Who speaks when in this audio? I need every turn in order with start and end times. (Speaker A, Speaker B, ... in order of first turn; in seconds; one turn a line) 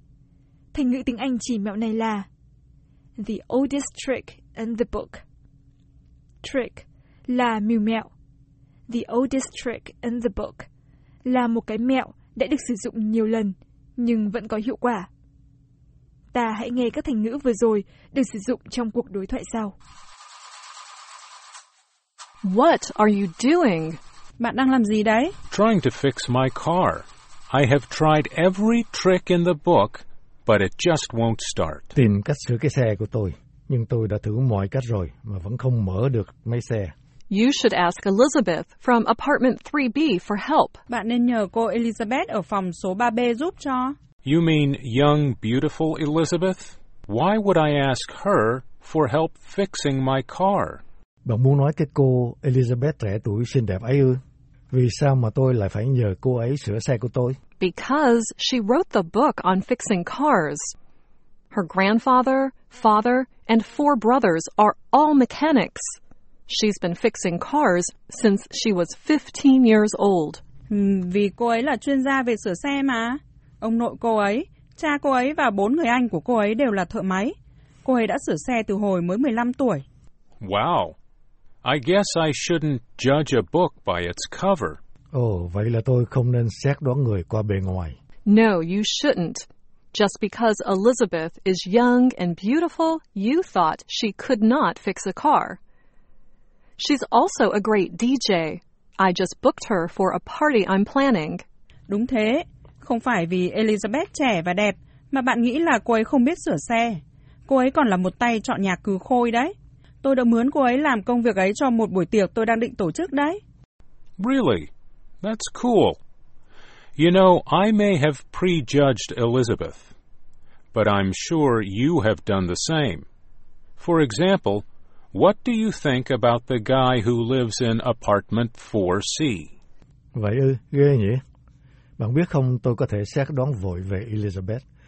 Speaker A: 0.7-2.3
Speaker A: 3.2-5.2
Speaker A: 6.4-8.1
Speaker A: 8.9-10.7
Speaker A: 11.3-15.1
Speaker A: 16.3-19.8
Speaker B: 22.4-24.0
Speaker C: 24.4-25.3
Speaker D: 25.5-31.9
Speaker E: 31.9-36.9
Speaker B: 37.3-40.8
Speaker C: 40.9-43.9
Speaker D: 44.2-50.8
Speaker E: 51.2-54.2
Speaker E: 54.7-57.4
Speaker B: 57.6-60.7
Speaker B: 61.5-66.0
Speaker B: 66.5-70.4
Speaker C: 70.7-79.8
Speaker D: 80.4-81.0
Speaker D: 81.6-84.8
Speaker E: 85.1-88.0
Speaker B: 88.3-95.6
Speaker B: 96.8-101.4
Speaker C: 101.9-113.4
Speaker D: 114.2-114.7
Speaker D: 115.2-116.0
Speaker D: 117.0-119.9
Speaker D: 120.7-123.1
Speaker D: 123.8-129.5
Speaker E: 130.2-131.2
Speaker E: 132.0-134.6